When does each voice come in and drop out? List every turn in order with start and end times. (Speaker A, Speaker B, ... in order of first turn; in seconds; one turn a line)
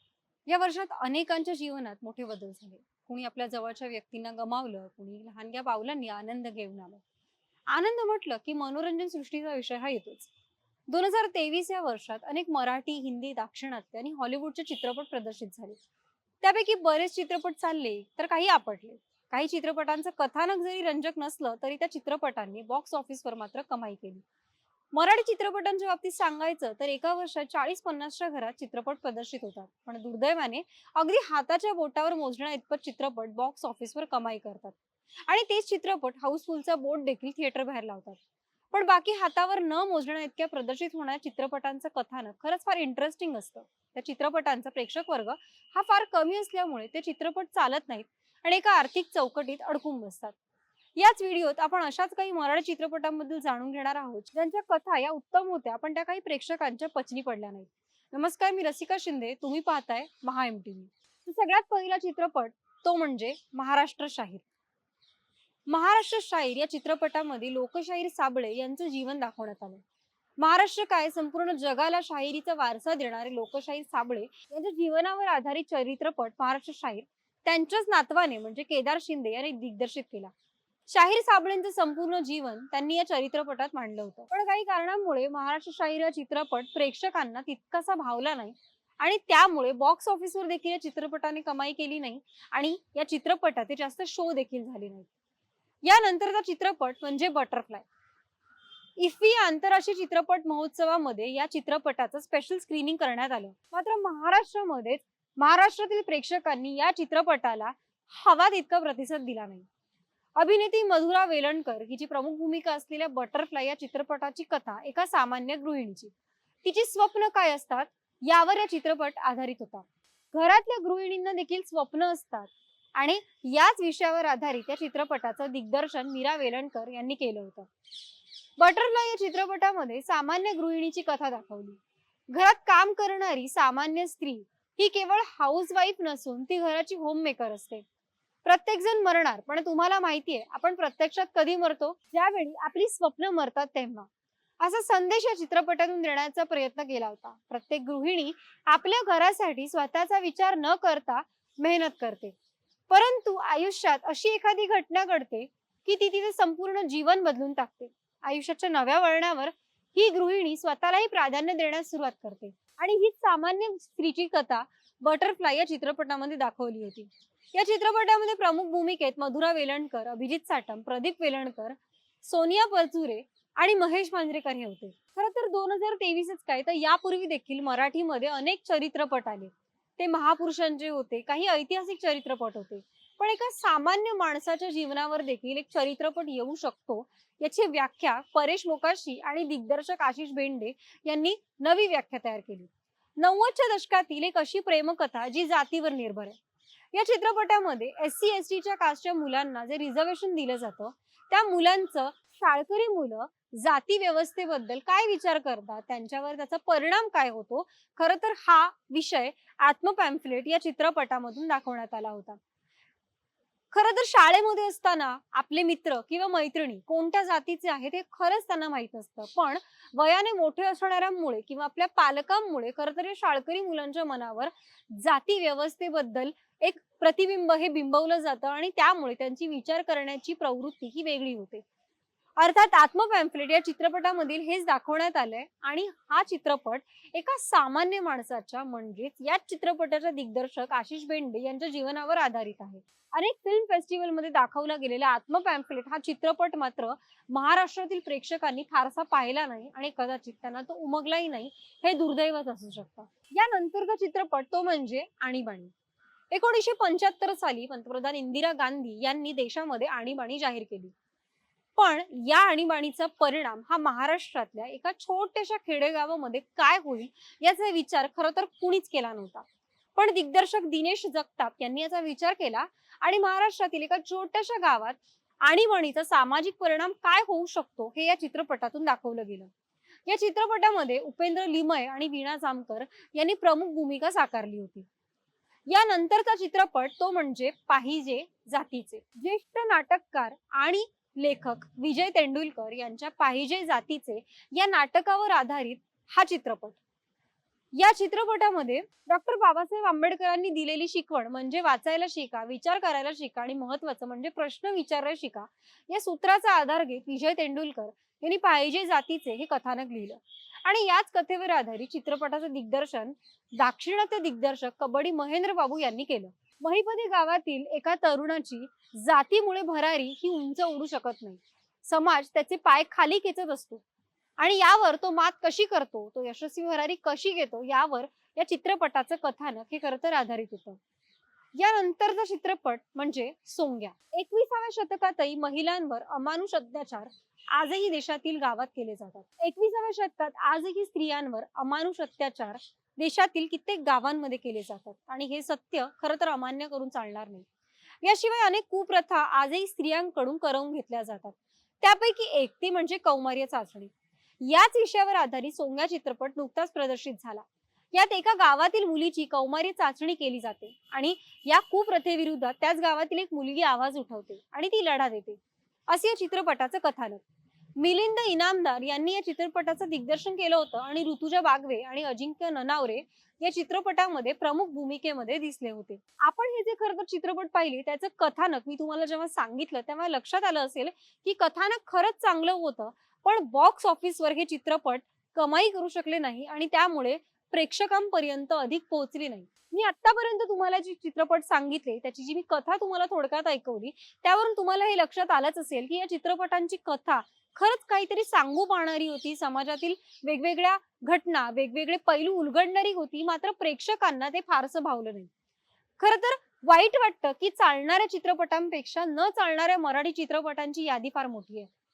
Speaker A: 0.5-7.0
Speaker A: 7.7-10.3
Speaker A: 10.9-15.8
Speaker A: 16.4-24.2
Speaker A: 24.9-34.8
Speaker A: 35.3-38.2
Speaker A: 38.7-50.3
Speaker A: 51.0-64.4
Speaker A: 65.7-69.8
Speaker A: 70.4-80.3
Speaker A: 80.9-95.1
Speaker A: 95.8-97.8
Speaker A: 99.0-109.6
Speaker A: 110.3-116.1
Speaker A: 116.6-127.7
Speaker A: 128.6-137.8
Speaker A: 138.4-144.1
Speaker A: 144.6-152.3
Speaker A: 152.9-196.3
Speaker A: 196.9-212.4
Speaker A: 213.7-231.6
Speaker A: 232.4-255.7
Speaker A: 256.3-260.9
Speaker A: 261.8-269.4
Speaker A: 269.9-279.5
Speaker A: 280.1-284.9
Speaker A: 285.7-296.8
Speaker A: 297.7-323.8
Speaker A: 324.4-330.8
Speaker A: 331.5-347.4
Speaker A: 348.0-367.2
Speaker A: 367.8-405.3
Speaker A: 406.0-411.7